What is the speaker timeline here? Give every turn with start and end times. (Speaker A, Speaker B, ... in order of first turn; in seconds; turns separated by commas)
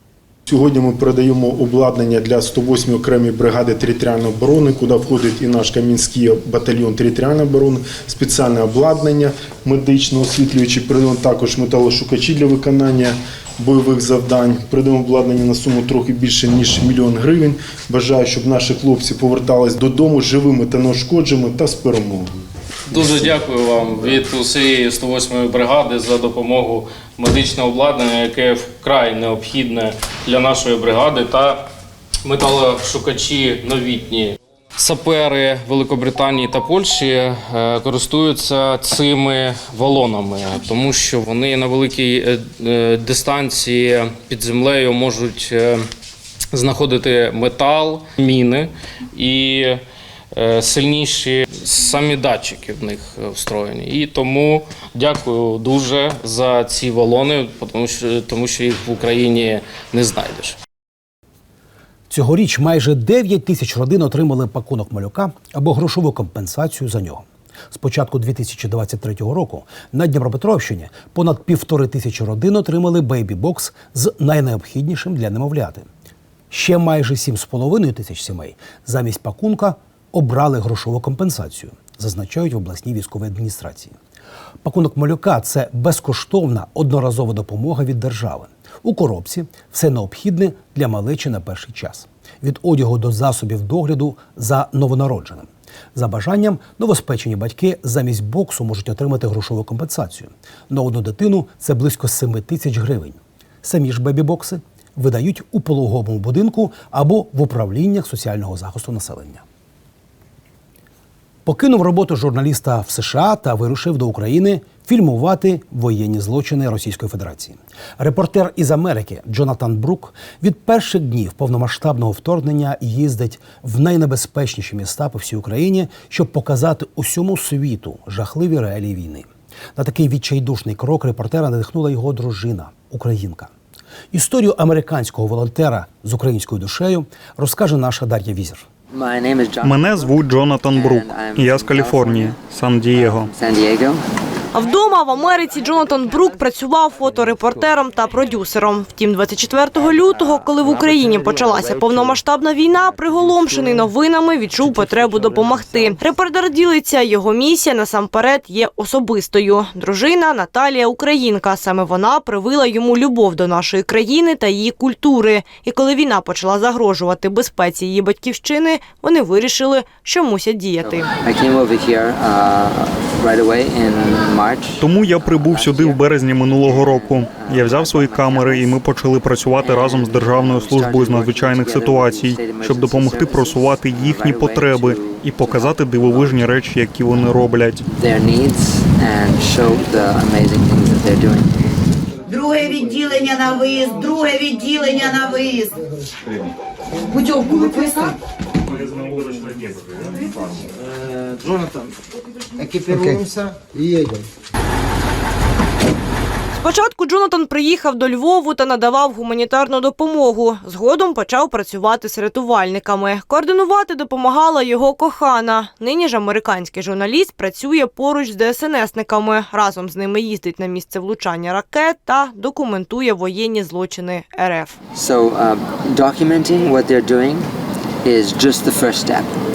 Speaker A: 0.5-22.3, Speaker B: 22.9-31.7, Speaker A: 22.9-23.2, Speaker B: 32.2-45.9, Speaker B: 46.5-60.6, Speaker C: 62.1-75.8, Speaker C: 76.5-83.9, Speaker C: 84.6-109.4, Speaker C: 111.4-133.5, Speaker C: 134.1-138.6, Speaker D: 138.9-140.1, Speaker E: 139.6-143.3, Speaker D: 140.7-142.4, Speaker D: 142.9-144.0, Speaker F: 144.5-171.1, Speaker D: 170.8-178.8, Speaker E: 174.8-187.8, Speaker D: 179.6-186.4, Speaker D: 187.9-191.5, Speaker G: 192.3-195.8, Speaker G: 197.0-198.2, Speaker F: 206.5-224.8, Speaker D: 224.9-227.5, Speaker D: 228.0-229.3